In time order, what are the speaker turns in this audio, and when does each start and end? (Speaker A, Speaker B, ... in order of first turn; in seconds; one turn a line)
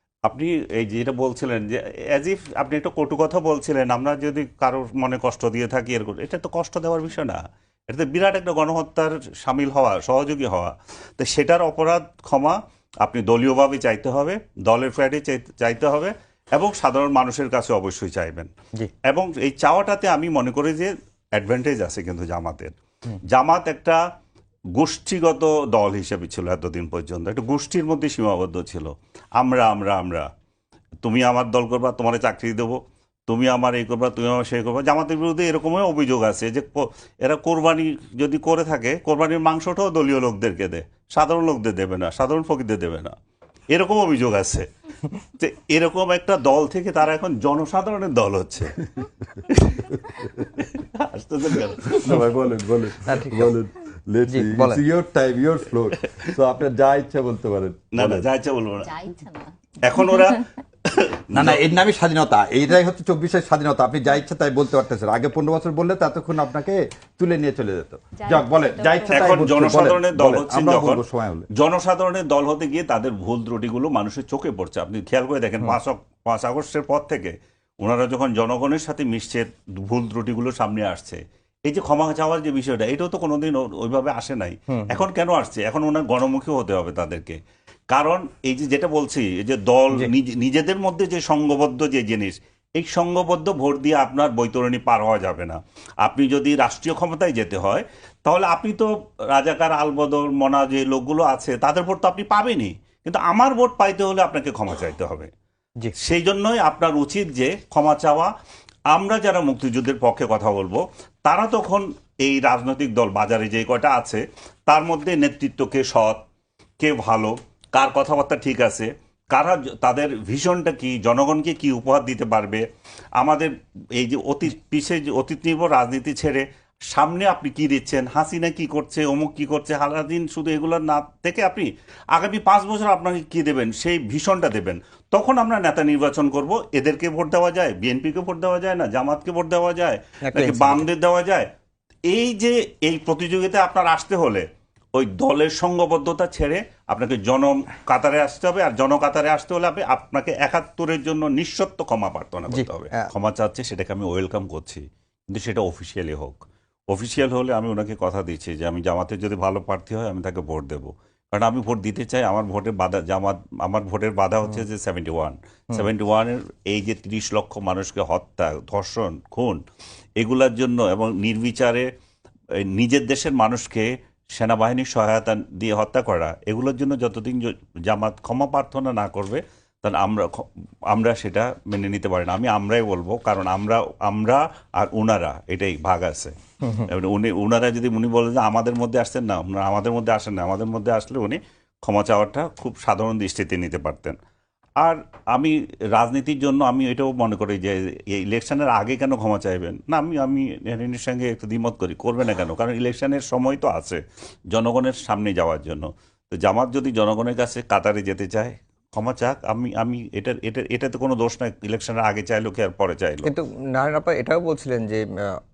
Speaker A: 0.3-18.5
Speaker A: 19.1-22.7
Speaker A: 23.2-24.0
Speaker A: 24.8-30.3
Speaker A: 31.0-43.1
Speaker A: 43.7-44.7
Speaker A: 45.4-52.3
Speaker B: 51.9-58.3
Speaker C: 53.1-53.5
Speaker C: 54.3-54.8
Speaker A: 57.9-59.0
Speaker D: 58.8-59.5
Speaker A: 59.8-61.6
Speaker B: 61.3-71.5
Speaker D: 68.2-69.5
Speaker A: 69.1-87.4
Speaker C: 84.7-85.0
Speaker A: 87.9-105.3
Speaker A: 106.0-108.3
Speaker A: 108.9-116.2
Speaker A: 116.8-122.6
Speaker A: 123.2-141.5
Speaker C: 140.3-140.9
Speaker A: 142.1-169.6
Speaker C: 152.5-153.1
Speaker A: 170.2-171.9
Speaker A: 172.6-194.2
Speaker A: 194.8-213.3
Speaker C: 213.2-215.4